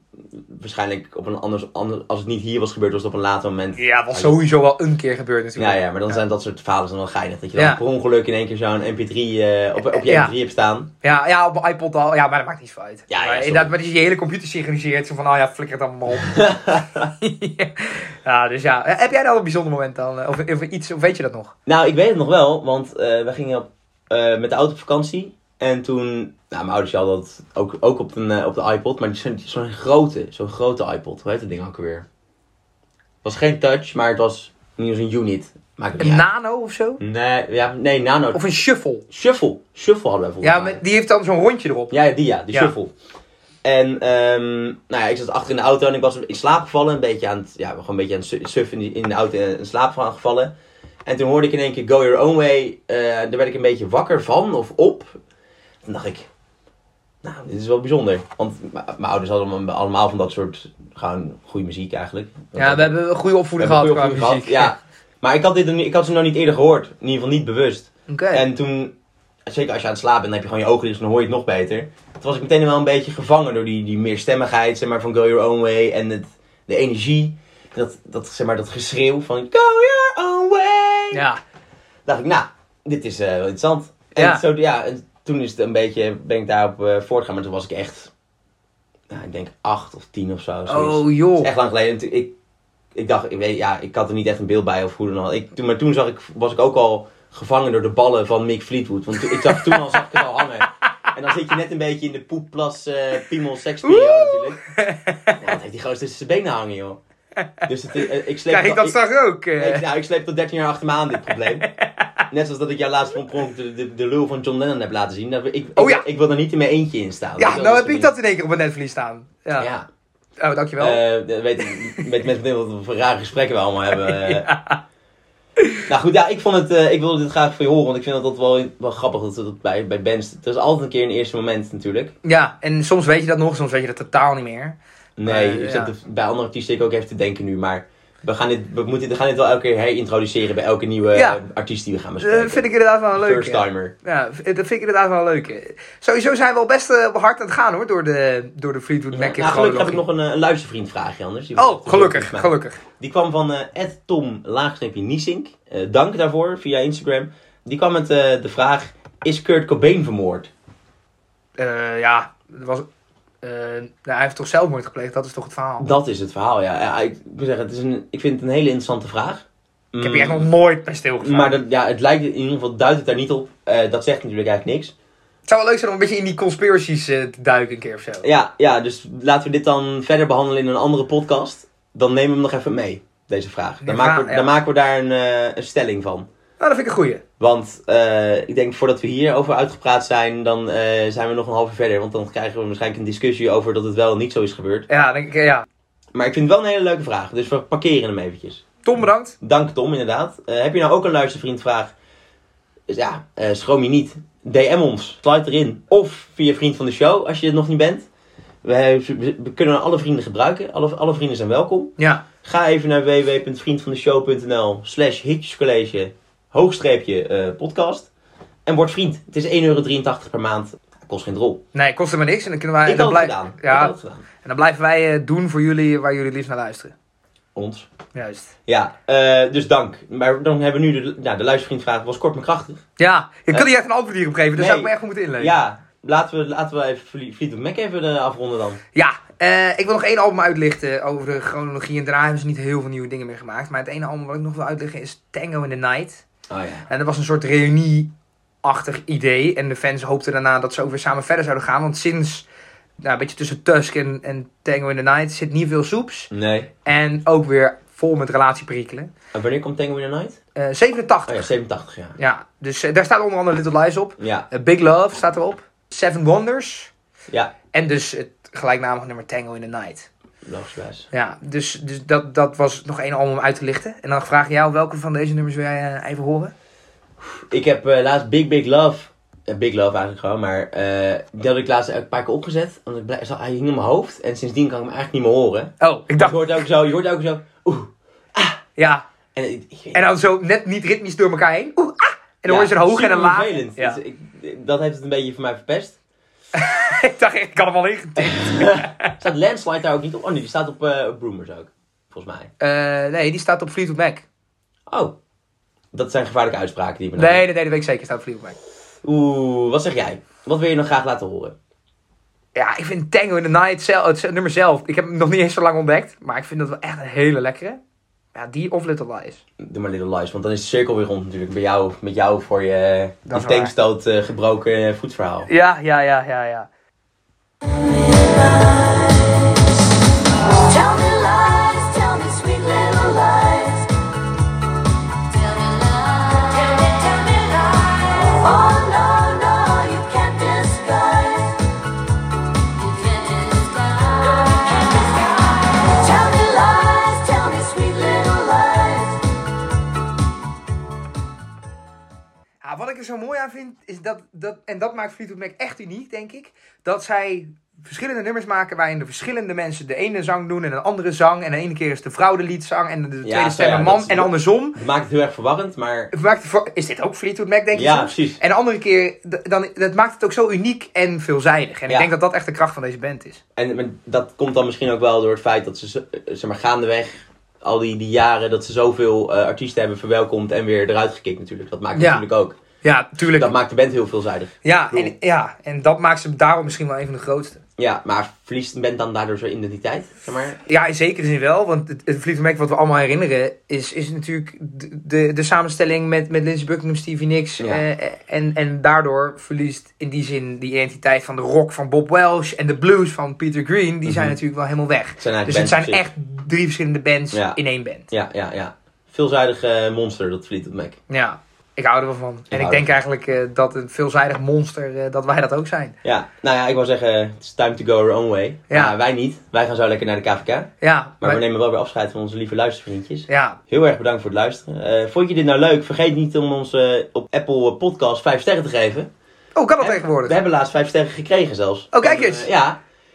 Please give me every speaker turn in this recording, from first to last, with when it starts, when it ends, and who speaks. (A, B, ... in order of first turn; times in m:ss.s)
0:00.3-0:04.4 A
0:03.7-0:06.2 B
0:05.6-0:10.9 A
0:07.6-0:07.8 B
0:09.8-0:10.3 B
0:11.0-0:21.5 B
0:13.1-0:13.7 A
0:16.2-0:17.1 A
0:21.7-0:32.0 A
0:33.2-0:36.2 A
0:36.0-0:37.0 B
0:37.0-0:38.4 A
0:38.3-0:39.0 B
0:39.1-0:40.8 A
0:40.4-0:41.9 B
0:41.9-0:42.9 A
0:43.6-0:50.5 A
0:51.0-0:55.2 A
0:55.8-0:56.3 A
0:57.2-1:02.9 A
1:02.6-1:04.7 B
1:03.6-1:08.9 A
1:08.1-1:08.4 B
1:09.5-1:21.2 A
1:21.1-1:21.4 B
1:22.0-1:28.1 A
1:24.2-1:24.4 B
1:29.1-1:32.3 A
1:30.7-1:31.5 B
1:32.9-1:44.6 A
1:39.2-1:40.0 B
1:43.8-1:45.5 B
1:45.4-1:47.0 A
1:47.6-1:51.7 A
1:48.5-1:49.9 B
1:51.3-1:52.1 B
1:52.3-1:58.1 A
1:55.8-1:56.0 B
1:57.4-1:59.7 B
1:59.6-1:59.9 A
2:00.4-2:01.0 B
2:00.8-2:04.5 A
2:04.0-2:04.8 B
2:05.9-2:12.1 A
2:12.2-2:15.9 B
2:15.2-2:23.9 A
2:21.1-2:21.4 B
2:22.2-2:30.0 B
2:29.1-2:40.5 A
2:31.6-2:32.8 B
2:41.6-2:42.9 B
2:43.4-2:45.9 B
2:45.8-2:50.5 A
2:50.0-2:51.6 B
2:51.2-2:54.9 A
2:55.5-2:58.2 B
2:58.2-3:06.3 A
3:03.8-3:04.5 B
3:06.6-3:07.2 B
3:07.4-3:14.9 A
3:14.9-3:15.6 B
3:16.1-3:18.8 A
3:18.8-3:19.4 B
3:19.4-3:21.9 A
3:22.9-3:28.1 A
3:28.6-3:38.1 A
3:32.0-3:32.2 B
3:38.6-3:41.6 A
3:41.7-3:46.9 B
3:42.8-3:44.2 A
3:47.5-3:47.9 A
3:48.1-3:48.5 B
3:48.7-3:52.8 A
3:53.0-3:55.5 B
3:54.5-3:58.8 A
3:58.9-4:06.2 B
4:06.5-4:06.9 A
4:06.9-4:08.1 B
4:08.6-4:12.4 B
4:13.0-4:16.3 B
4:16.3-4:16.7 A
4:16.8-4:19.1 B
4:19.3-4:20.4 A
4:20.6-4:21.5 B
4:21.3-4:22.2 A
4:22.2-4:26.9 B
4:24.2-4:24.5 A
4:27.7-4:30.1 B
4:30.4-4:31.1 A
4:31.1-4:36.5 B
4:37.2-4:48.6 A
4:45.8-4:46.6 B
4:48.8-4:49.0 B
4:49.3-4:50.0 A
4:49.9-4:54.0 B
4:52.4-4:56.0 A
4:56.5-4:59.1 B
4:58.2-5:02.5 A
5:02.6-5:04.2 B
5:04.9-5:05.1 A
5:05.9-5:07.4 A
5:07.2-5:08.6 B
5:09.0-5:11.5 A
5:12.5-5:17.8 B
5:18.3-5:19.4 B
5:19.6-5:25.5 A
5:23.3-5:23.7 B
5:25.5-5:26.7 B
5:27.7-5:29.6 C
5:30.5-5:33.9 C
5:35.3-5:41.7 C
5:42.6-5:49.2 C
5:52.6-6:04.8 B
6:03.2-6:06.1 A
6:06.1-6:13.4 B
6:07.7-6:08.4 A
6:13.6-6:22.6 A
6:21.9-6:22.2 B
6:22.8-6:23.5 B
6:23.2-6:25.1 A
6:24.6-6:27.6 B
6:27.8-6:30.6 A
6:30.7-6:48.1 B
6:37.6-6:37.8 A
6:44.0-6:44.4 A
6:45.2-6:46.0 A
6:47.3-6:47.6 A
6:48.1-6:51.0 A
6:51.1-6:56.0 B
6:52.5-6:53.0 A
6:56.0-7:00.7 A
6:58.7-6:59.0 B
7:00.8-7:01.4 B
7:01.2-7:09.1 A
7:03.3-7:03.6 B
7:09.6-7:10.3 B
7:09.8-7:12.8 A
7:11.9-7:12.5 B